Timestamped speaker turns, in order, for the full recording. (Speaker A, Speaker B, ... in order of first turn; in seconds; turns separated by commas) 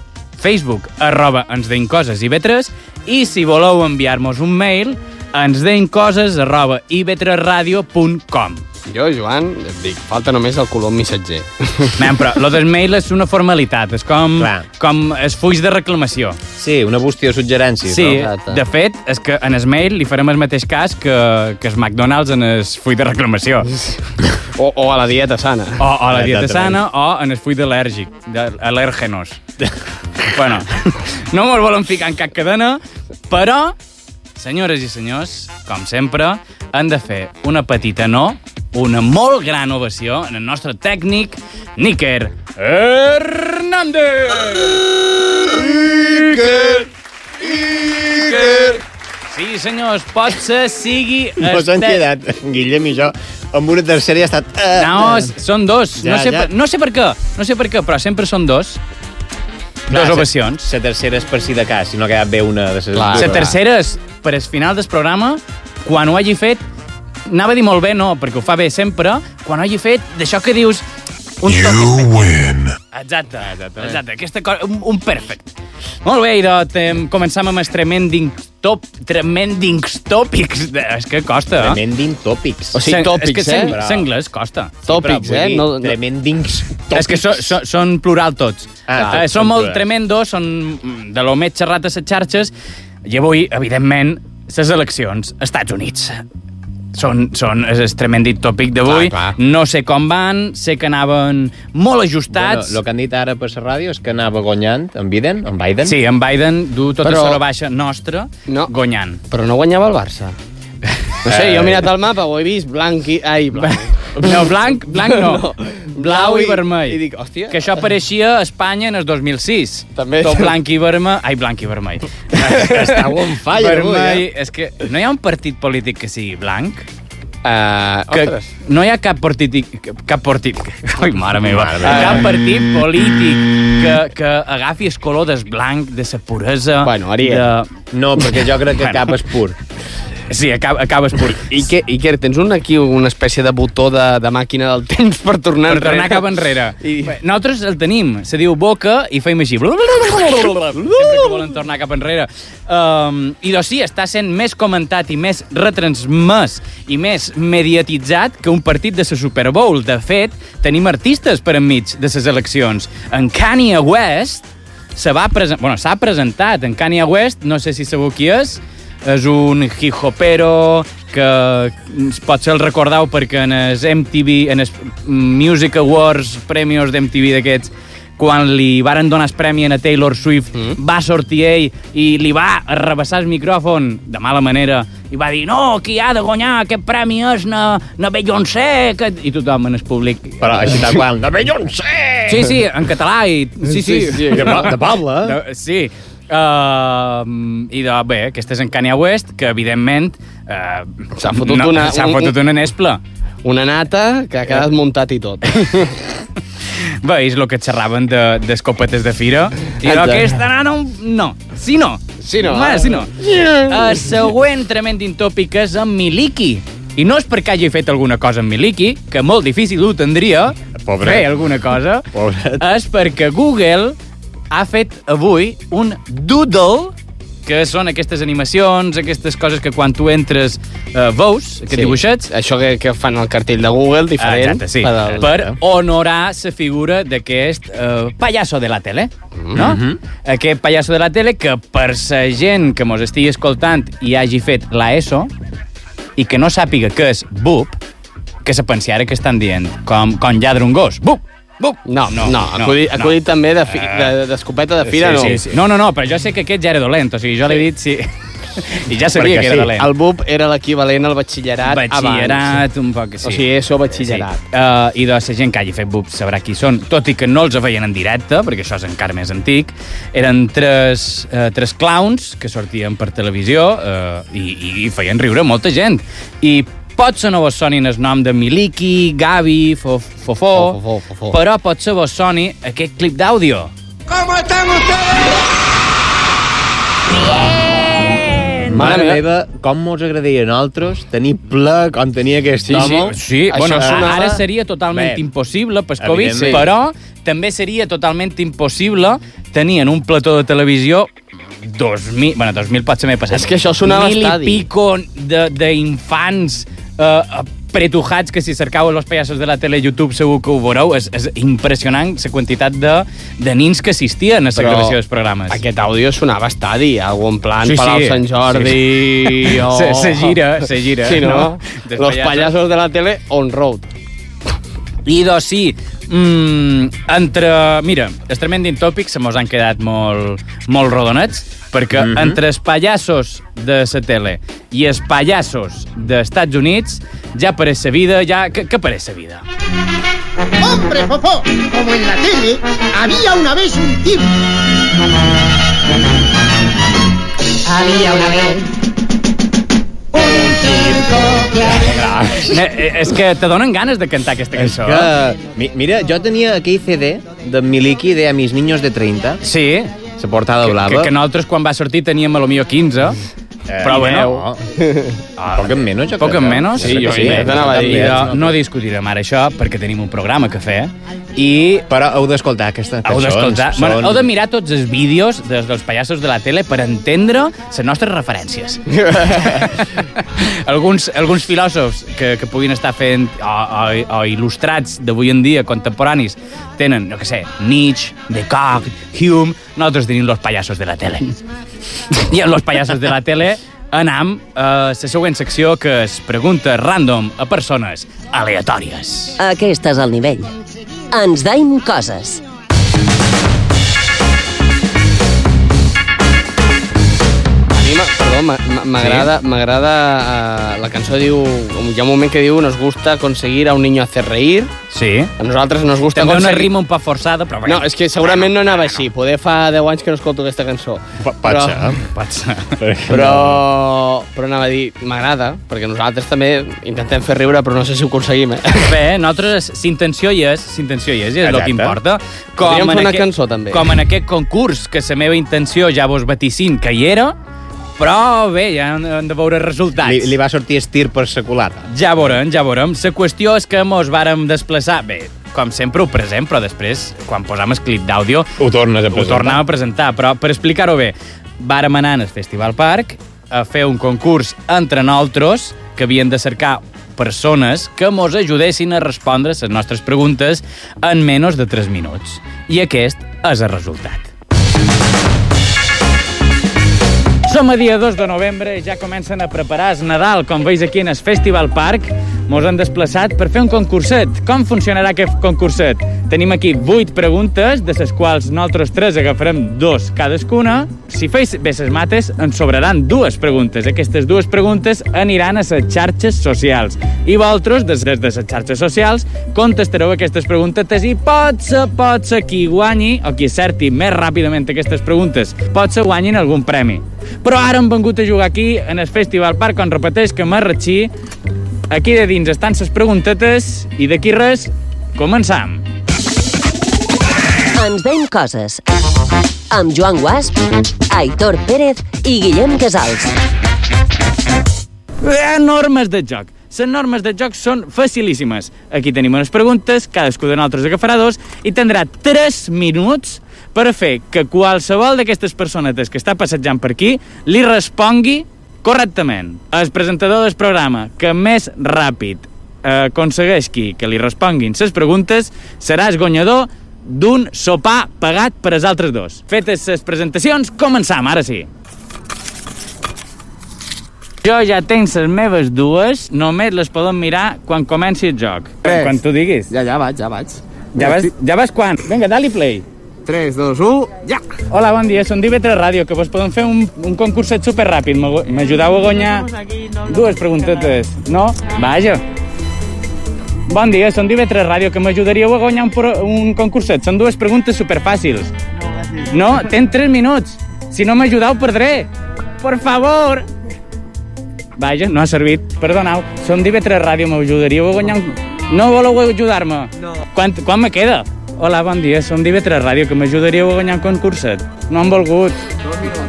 Speaker A: 0.4-8.6, Speaker B: 8.9-12.0, Speaker A: 12.0-16.4, Speaker C: 14.4-14.7, Speaker C: 16.6-18.2, Speaker A: 17.9-23.8, Speaker B: 18.1-18.6, Speaker B: 24.6-25.8, Speaker A: 25.8-29.4, Speaker C: 26.1-26.8, Speaker A: 30.2-33.8, Speaker A: 34.4-44.9, Speaker A: 45.4-46.8, Speaker C: 45.4-46.9, Speaker C: 47.4-48.8, Speaker A: 48.1-52.0, Speaker C: 51.4-55.3, Speaker A: 54.8-58.8, Speaker C: 56.0-56.5, Speaker A: 59.9-60.7, Speaker C: 59.9-63.5, Speaker B: 63.0-63.5, Speaker A: 63.1-66.6, Speaker A: 67.3-70.8, Speaker A: 71.4-75.5, Speaker C: 73.5-74.0, Speaker A: 76.0-81.8, Speaker C: 81.6-82.8, Speaker B: 82.8-83.8, Speaker A: 82.8-85.7, Speaker C: 83.6-84.1, Speaker B: 84.9-86.0, Speaker C: 85.8-87.5, Speaker A: 86.9-92.5, Speaker C: 88.9-89.8, Speaker A: 93.1-96.2, Speaker A: 96.9-102.8, Speaker B: 98.8-99.4, Speaker C: 102.3-106.0, Speaker A: 105.8-109.2, Speaker B: 107.0-107.4, Speaker B: 109.3-110.3, Speaker B: 111.2-117.8, Speaker C: 111.3-111.8, Speaker A: 113.6-122.6, Speaker B: 120.0-120.5, Speaker C: 122.4-124.3, Speaker B: 122.6-123.0, Speaker A: 123.5-126.8, Speaker B: 127.4-128.5, Speaker A: 128.1-137.7, Speaker C: 131.4-132.4, Speaker B: 131.8-132.3, Speaker B: 136.8-137.5, Speaker C: 137.9-139.6, Speaker A: 138.8-139.1, Speaker A: 140.3-141.5, Speaker B: 141.4-147.1, Speaker A: 145.7-190.8, Speaker B: 150.8-151.5, Speaker C: 190.4-192.6, Speaker A: 192.3-203.0, Speaker B: 193.7-194.7, Speaker C: 194.3-195.4, Speaker B: 201.2-202.3, Speaker B: 203.4-206.0, Speaker A: 206.7-224.0, Speaker B: 209.8-210.3, Speaker B: 212.2-213.6, Speaker C: 220.8-221.5, Speaker C: 222.1-222.6, Speaker A: 224.5-226.9, Speaker A: 227.5-232.3, Speaker B: 231.7-235.4, Speaker A: 234.2-245.3, Speaker C: 235.2-235.6, Speaker C: 239.5-240.0, Speaker A: 246.2-247.8, Speaker A: 248.4-253.2, Speaker B: 251.9-255.4, Speaker A: 253.7-254.1, Speaker C: 254.8-255.5, Speaker A: 255.1-259.9, Speaker C: 259.2-259.7, Speaker B: 259.3-262.6, Speaker A: 261.6-263.4, Speaker B: 263.2-264.4, Speaker A: 264.0-280.8, Speaker B: 280.6-281.4, Speaker A: 281.3-283.7, Speaker C: 288.7-293.1, Speaker B: 288.7-289.2, Speaker A: 292.7-301.1, Speaker B: 293.5-294.4, Speaker C: 293.8-294.1, Speaker C: 294.9-295.2, Speaker C: 296.0-296.7, Speaker B: 296.3-296.6, Speaker A: 301.6-315.6, Speaker B: 303.3-304.6, Speaker B: 314.6-314.9, Speaker B: 315.5-323.9, Speaker A: 317.6-322.5, Speaker A: 325.1-339.4, Speaker C: 331.9-332.4, Speaker D: 340.6-344.3, Speaker D: 350.3-351.1, Speaker C: 351.6-352.7, Speaker A: 352.4-355.1, Speaker C: 354.6-359.4, Speaker A: 359.4-359.9, Speaker C: 360.2-361.1, Speaker A: 360.6-363.2, Speaker C: 363.7-364.6, Speaker A: 363.8-364.4, Speaker B: 364.8-365.2, Speaker A: 365.4-371.9, Speaker C: 365.5-368.6, Speaker B: 366.8-368.3, Speaker C: 371.9-374.3, Speaker A: 373.1-391.4, Speaker B: 378.9-379.7, Speaker A: 392.1-399.4, Speaker E: 399.4-400.5, Speaker E: 401.1-402.4, Speaker B: 407.7-414.7, Speaker A: 409.0-409.3, Speaker A: 414.9-415.3, Speaker B: 415.4-416.7, Speaker A: 416.1-419.0, Speaker B: 417.7-422.0, Speaker C: 421.2-422.0, Speaker A: 422.1-422.8, Speaker C: 422.8-423.6, Speaker B: 423.1-428.9, Speaker A: 428.9-437.4, Speaker C: 431.4-432.0, Speaker B: 432.6-433.9, Speaker A: 438.0-440.4, Speaker C: 440.0-441.9, Speaker A: 441.9-448.5, Speaker C: 448.6-449.6, Speaker A: 449.1-464.3, Speaker A: 467.5-501.1, Speaker A: 501.9-505.8, Speaker E: 507.8-508.8, Speaker E: 509.7-510.6, Speaker E: 511.1-513.3, Speaker A: 515.2-541.7, Speaker A: 544.4-549.7, Speaker B: 548.8-549.2, Speaker B: 549.7-551.3, Speaker A: 550.9-552.9, Speaker B: 553.3-554.4, Speaker A: 554.7-559.5, Speaker A: 560.1-562.2, Speaker A: 563.7-568.5, Speaker A: 569.3-572.1, Speaker A: 572.6-573.5, Speaker A: 574.8-585.6